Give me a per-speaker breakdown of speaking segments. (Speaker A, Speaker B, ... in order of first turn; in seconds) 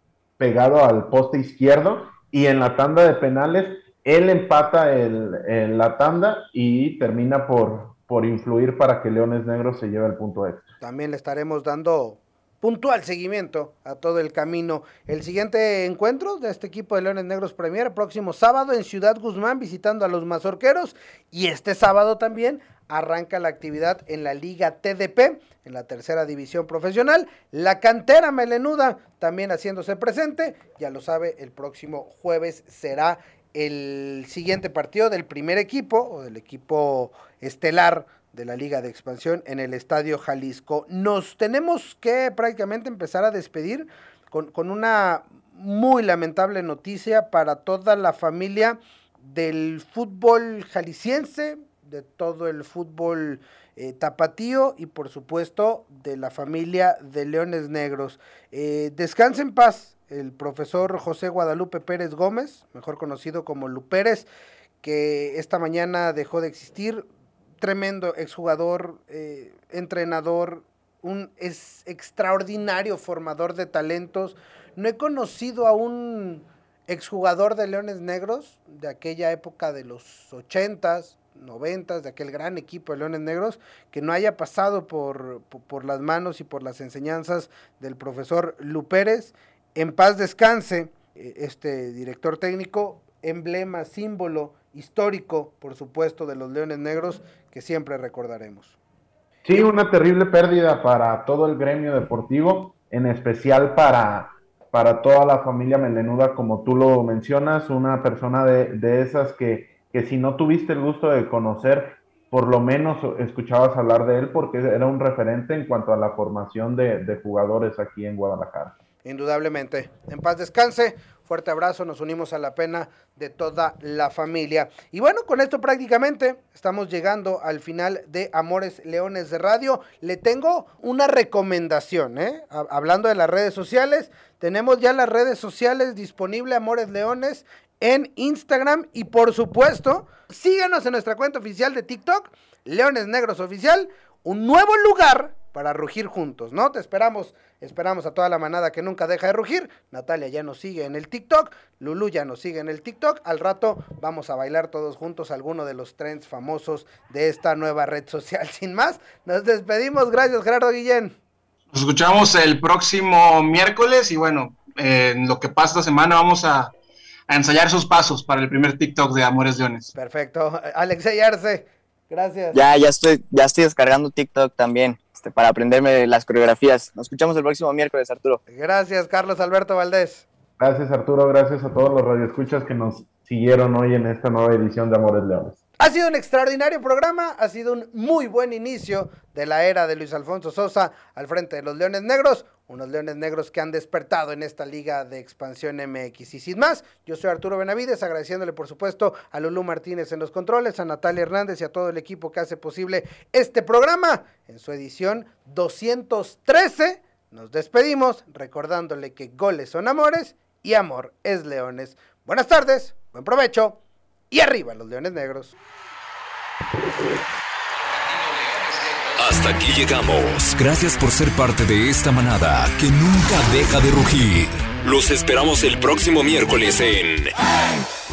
Speaker A: 0.4-10.7, 99.5-118.8, 180.6-185.6
Speaker B: 10.8-64.3, 64.8-67.0, 67.6-98.8, 119.0-161.2, 169.9-172.6, 178.5-180.2, 185.8-213.8, 214.3-215.5
Speaker C: 161.7-166.7, 167.3-169.9
Speaker D: 172.5-178.4
Speaker E: 219.2-227.3